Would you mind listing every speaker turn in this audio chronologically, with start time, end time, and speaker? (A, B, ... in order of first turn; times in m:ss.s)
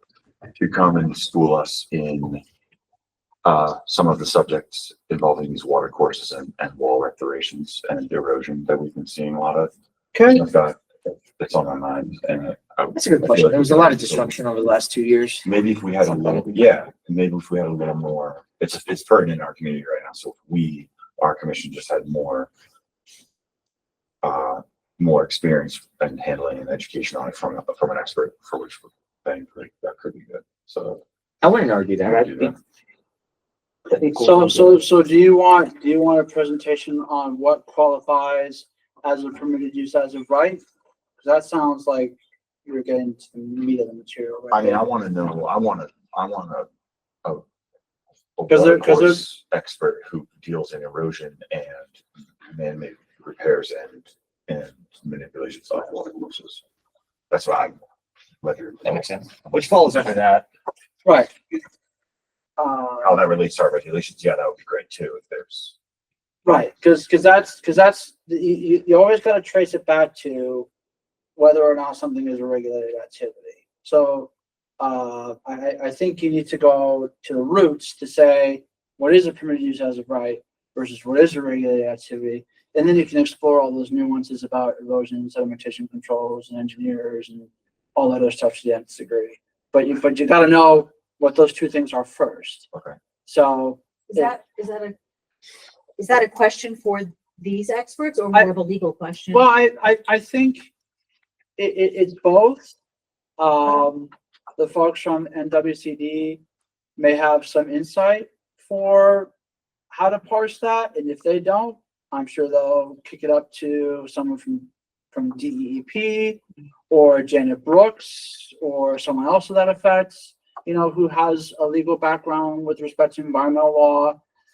0:00.5-0:02.4 A
0:03.4-0:09.7 A
0:10.1-0:10.4 B
0:10.3-0:14.3 A
0:12.9-0:15.5 C
0:15.4-0:22.5 A
0:16.0-0:16.6 C
0:24.2-0:31.0 A
0:31.4-0:32.6 C
0:32.1-0:32.5 A
0:33.9-0:34.8 C
0:34.0-0:40.6 B
0:41.2-0:44.8 B
0:44.5-0:46.7 A
0:48.4-0:56.6 A
0:48.5-0:49.2 B
0:57.3-0:57.8 A
0:58.4-0:59.7 A
0:58.8-1:00.5 C
1:01.0-1:01.4 B
1:02.6-1:03.2 B
1:03.0-1:05.7 A
1:06.4-1:10.7 B
1:11.4-1:32.7 B
1:33.2-1:34.3 B
1:34.1-1:34.9 D
1:36.0-1:39.4 D
1:39.3-1:40.7 B
1:41.6-1:42.8 B
1:43.4-1:46.4 B
1:47.0-1:49.3 B
1:49.9-2:04.2 B